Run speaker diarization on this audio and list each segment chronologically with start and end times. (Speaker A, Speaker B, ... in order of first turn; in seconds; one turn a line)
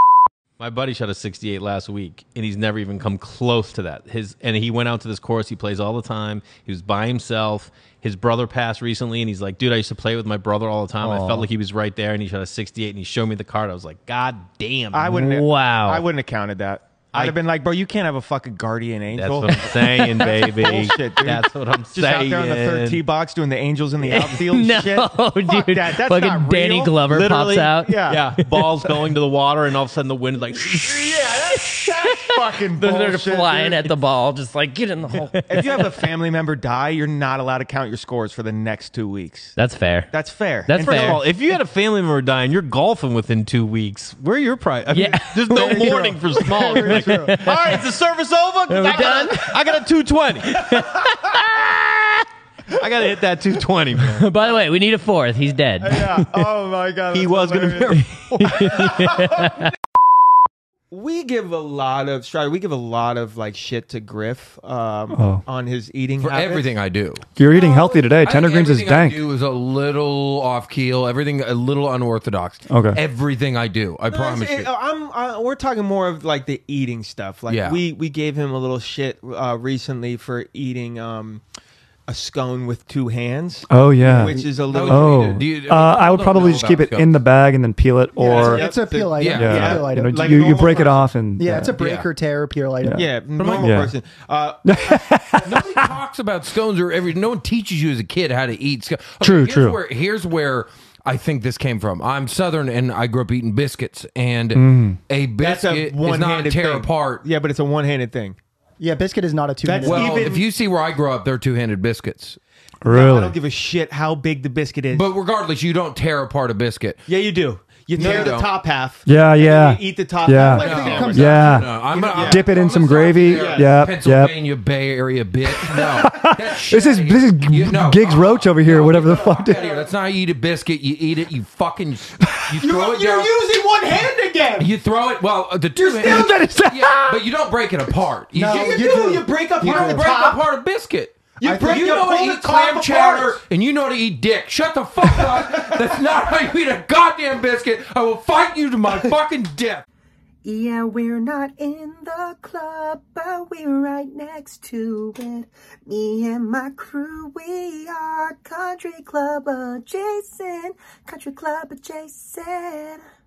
Speaker A: 0.6-15.2
Speaker B: 11.0-11.5
Speaker C: 14.9-28.3
Speaker B: 15.1-16.0
Speaker A: 19.1-23.0
Speaker B: 24.0-28.0
Speaker A: 28.0-31.2
Speaker C: 31.1-33.8
Speaker B: 31.4-35.9
Speaker C: 35.5-39.6
Speaker B: 39.6-40.1
Speaker C: 40.1-41.2
Speaker B: 40.6-41.2
Speaker A: 40.7-50.9
Speaker B: 44.9-47.8
Speaker C: 45.5-48.0
Speaker B: 48.7-49.6
Speaker B: 50.4-52.2
Speaker A: 52.7-54.3
Speaker B: 54.0-56.0
Speaker C: 55.8-59.3
Speaker A: 57.1-59.0
Speaker B: 58.4-59.7
Speaker C: 60.9-66.7
Speaker D: 65.1-65.4
Speaker E: 66.2-74.7
Speaker D: 67.3-69.3
Speaker D: 72.7-73.0
Speaker C: 74.1-81.4
Speaker E: 77.5-77.8
Speaker C: 82.1-85.3
Speaker D: 83.7-88.7
Speaker E: 84.7-87.2
Speaker F: 88.2-90.7
Speaker C: 88.2-91.1
Speaker E: 89.2-89.8
Speaker D: 89.3-91.8
Speaker F: 91.4-93.1
Speaker E: 91.8-92.0
Speaker D: 92.8-93.9
Speaker C: 92.9-95.1
Speaker D: 94.6-95.9
Speaker E: 95.4-107.2
Speaker D: 99.2-99.8
Speaker D: 104.5-105.0
Speaker C: 105.4-108.4
Speaker F: 108.8-110.3
Speaker C: 109.6-110.4
Speaker E: 109.8-112.4
Speaker D: 112.8-113.3
Speaker C: 112.8-115.1
Speaker E: 114.9-117.0
Speaker C: 117.1-122.5
Speaker E: 118.0-118.5
Speaker F: 118.0-118.3
Speaker D: 119.0-124.4
Speaker E: 120.4-133.4
Speaker C: 123.3-123.7
Speaker D: 125.6-129.6
Speaker C: 132.6-134.7
Speaker F: 133.4-134.1
Speaker E: 134.6-149.8
Speaker D: 136.1-137.2
Speaker F: 138.3-140.2
Speaker C: 138.5-140.3
Speaker F: 141.4-142.2
Speaker C: 141.4-143.4
Speaker G: 150.4-163.0